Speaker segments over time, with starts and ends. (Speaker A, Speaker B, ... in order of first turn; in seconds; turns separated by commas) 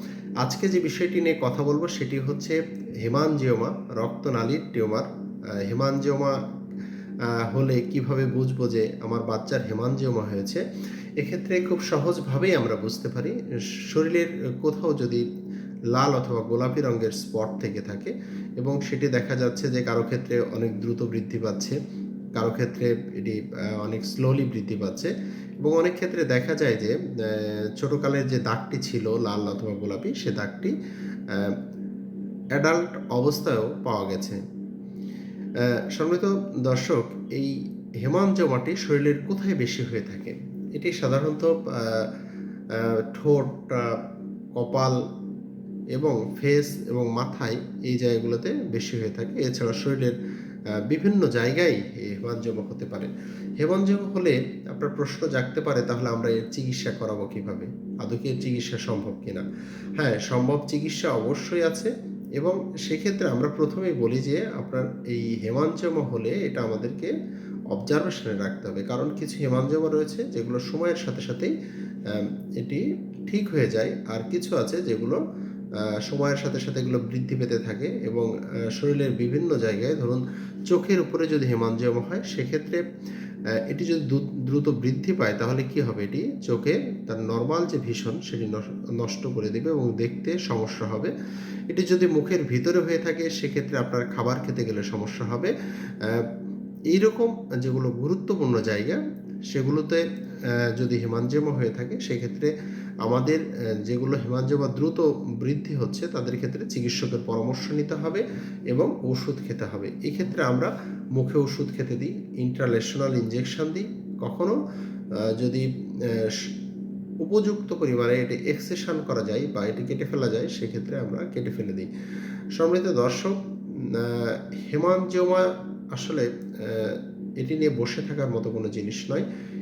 Speaker A: 0.4-5.1, Speaker A: 5.6-6.4, Speaker A: 7.4-10.6, Speaker A: 11.2-15.2, Speaker A: 15.9-21.8, Speaker A: 22.3-30.8, Speaker A: 31.3-31.6, Speaker A: 32.5-34.4, Speaker A: 35.6-42.1, Speaker A: 42.7-44.0, Speaker A: 44.5-44.9, Speaker A: 45.9-50.1, Speaker A: 50.8-59.5, Speaker A: 60.0-67.1, Speaker A: 67.7-71.5, Speaker A: 72.0-75.2, Speaker A: 76.0-82.8, Speaker A: 83.6-91.1, Speaker A: 91.7-96.3, Speaker A: 96.9-100.0, Speaker A: 100.7-102.5, Speaker A: 103.0-114.6, Speaker A: 115.2-116.5, Speaker A: 117.2-121.9, Speaker A: 122.5-129.2